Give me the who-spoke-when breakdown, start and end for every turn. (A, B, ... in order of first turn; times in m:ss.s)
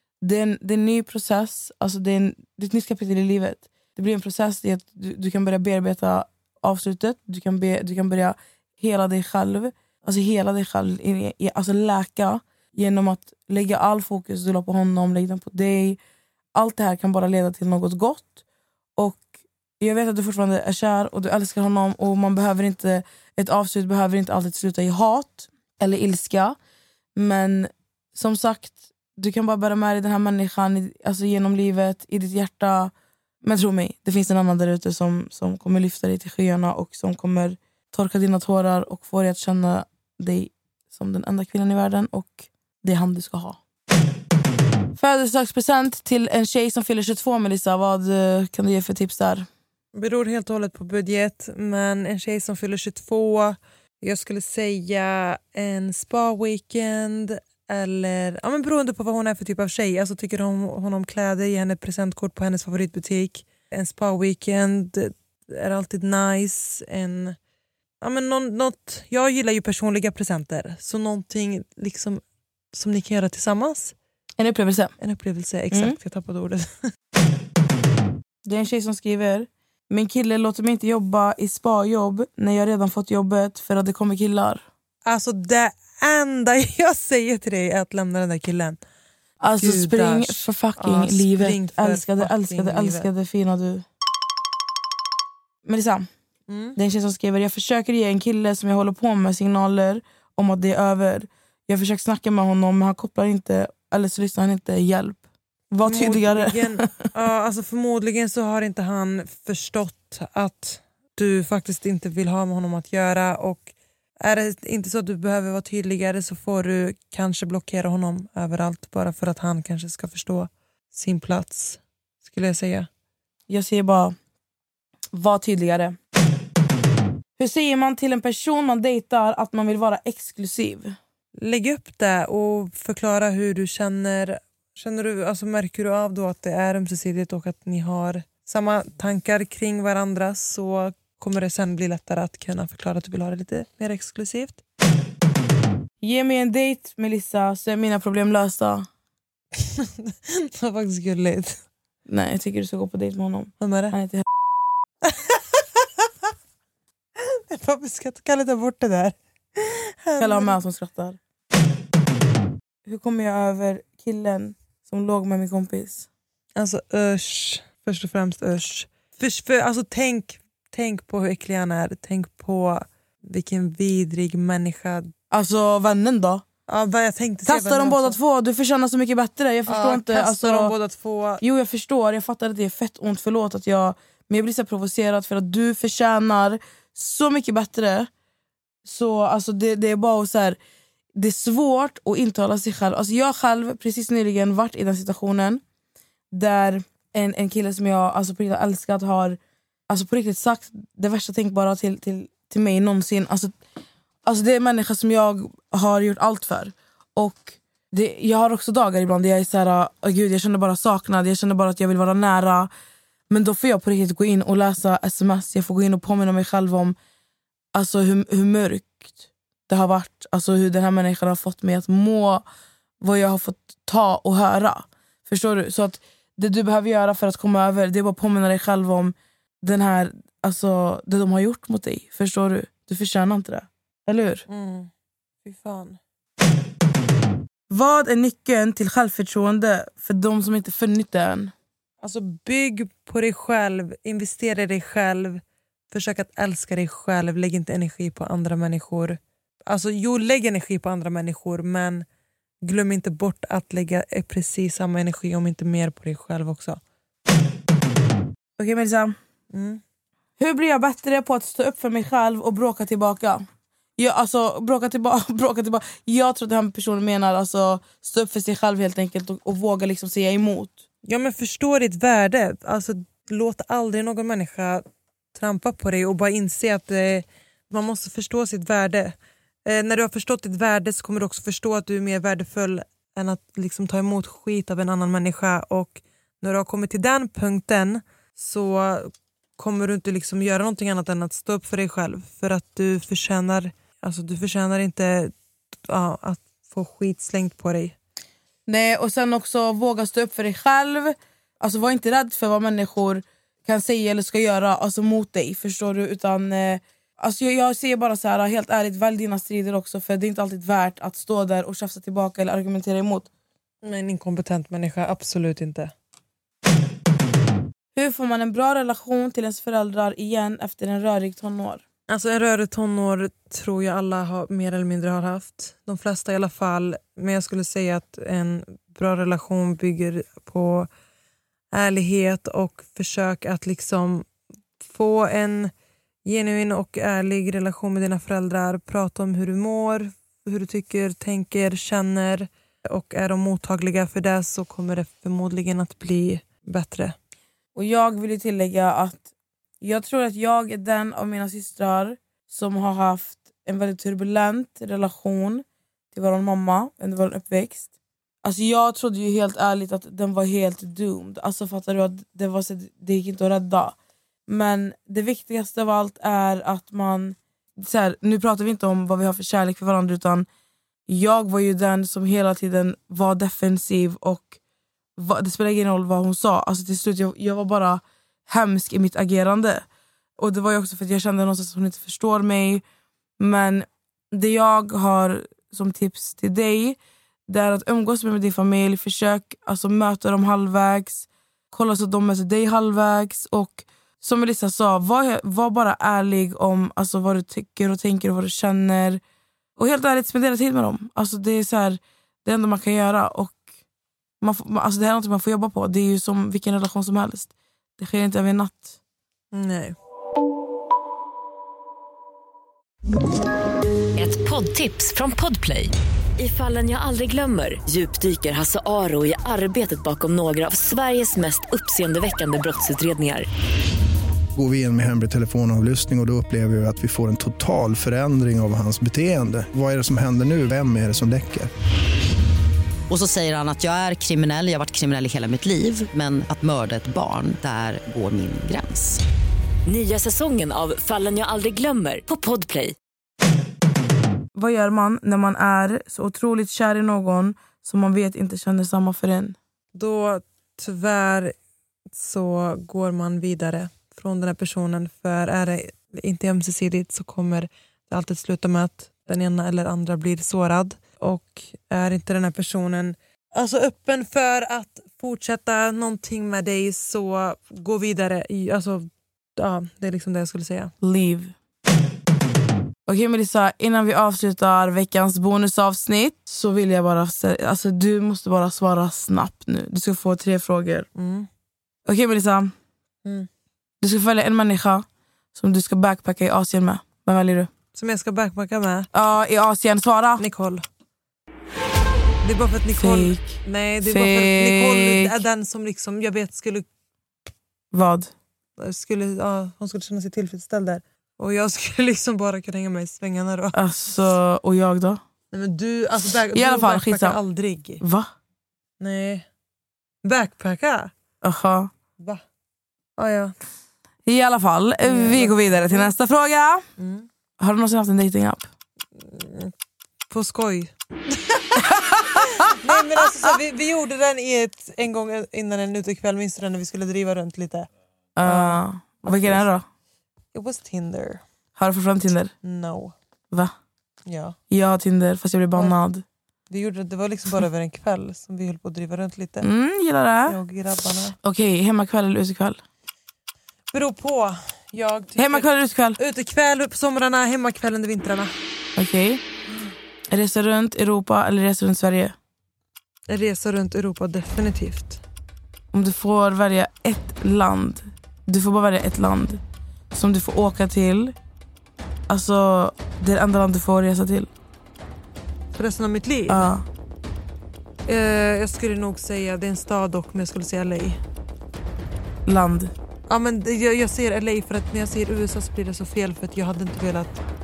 0:00.2-0:16.0 A
0:16.6-0:18.4 A
0:19.0-0:19.2 A
0:19.8-0:26.6 A
0:27.2-0:32.9 A
0:33.4-0:43.6 A
0:45.0-0:49.5 A
0:50.0-1:07.4 B
1:08.0-1:12.2 B
1:12.7-1:13.9 B
1:14.4-1:14.9 A
1:15.0-1:16.9 B
1:15.7-1:16.0 A
1:18.4-1:24.6 A
1:25.1-1:28.8 B
1:29.4-1:33.8 A
1:29.6-1:33.1 B
1:35.6-1:36.1 A
1:36.5-1:36.8 B
1:36.8-1:46.9 A
1:45.8-1:53.7 B
1:54.2-2:02.9 B
2:03.5-2:04.2 A
2:05.1-2:06.0 A
2:07.4-2:11.0 A
2:11.4-2:24.6 B
2:26.0-2:28.9 A
2:29.8-2:31.6 B
2:32.1-2:34.2 A
2:33.6-2:33.9 B
2:35.1-2:35.8 B
2:37.2-2:40.6 B
2:40.2-2:41.2 A
2:42.9-2:46.1 A
2:46.6-2:55.1 B
2:55.3-2:56.4 A
2:56.7-2:58.2 B
2:57.4-3:00.7 A
2:59.7-3:01.4 B
3:01.4-3:08.1 A
3:08.8-3:10.6 A
3:11.2-3:15.6 A
3:16.3-3:19.4 A
3:19.9-3:23.5 A
3:24.3-3:32.7 A
3:33.3-3:37.0 A
3:37.8-3:39.1 A
3:39.7-3:42.4 A
3:43.0-3:54.4 A
3:54.5-3:54.9 B
3:55.4-3:56.0 B
3:57.7-4:01.5 A
4:02.0-4:05.4 B
4:05.9-4:12.0 B
4:12.6-4:16.8 B
4:18.6-4:19.2 A
4:19.5-4:19.8 B
4:20.4-4:23.4 A
4:24.0-4:30.8 A
4:31.0-4:39.2 B
4:39.7-4:55.3 B
4:55.9-4:58.0 B
4:58.7-5:13.3 A
5:13.8-5:15.9 B
5:18.0-5:21.8 A
5:22.1-5:30.9 B
5:31.7-5:34.3 B
5:34.8-5:35.7 B
5:36.3-5:47.2 B
5:47.8-5:49.3 A
5:49.8-5:57.9 A
5:58.4-6:10.5 A
6:11.1-6:14.6 A
6:15.2-6:19.8 A
6:20.4-6:22.8 A
6:23.4-6:27.0 A
6:27.5-6:39.2 A
6:39.8-6:43.6 A
6:44.4-6:48.9 A
6:49.5-6:50.0 B
6:54.2-7:03.5 C
7:04.6-7:11.7 D
7:13.1-7:19.2 E
7:19.9-7:23.0 C
7:24.6-7:29.6 A
7:30.0-7:31.5 B
7:32.1-7:50.9 B
7:51.0-7:51.5 A
7:53.1-8:01.1 A
8:01.2-8:01.5 B
8:02.1-8:02.7 A
8:04.0-8:07.7 A
8:07.9-8:09.1 B
8:09.1-8:10.4 A
8:10.4-8:10.8 B
8:12.4-8:16.9 B
8:13.0-8:15.4 A
8:17.9-8:18.3 A
8:18.8-8:23.8 B
8:23.7-8:25.2 A
8:25.5-8:28.0 B
8:26.5-8:27.4 A
8:28.0-8:28.3 A
8:29.0-8:29.4 B
8:30.2-8:31.1 B
8:31.4-8:31.9 A
8:33.2-8:33.5 B
8:34.3-8:36.8 A
8:35.0-8:36.1 B
8:37.0-8:37.3 B
8:37.6-8:38.7 A
8:39.2-8:39.7 B
8:40.3-8:47.9 B
8:48.4-8:49.9 A
8:48.4-8:49.6 B
8:50.5-8:51.4 B
8:51.8-8:52.5 A
8:52.6-8:53.1 B
8:54.3-8:54.6 B
8:54.7-8:56.2 A
8:56.7-8:59.7 B
8:59.6-9:00.6 A
9:00.5-9:01.4 B
9:01.4-9:02.8 A
9:03.9-9:08.5 B
9:05.4-9:06.2 A
9:09.0-9:09.4 A
9:10.3-9:12.3 A
9:13.3-9:15.2 B
9:15.9-9:19.6 A
9:20.1-9:21.3 A
9:22.3-9:24.5 A
9:25.7-9:26.7 B
9:26.5-9:26.9 A
9:28.1-9:31.2 B
9:32.5-9:32.9 A
9:33.3-9:37.4 B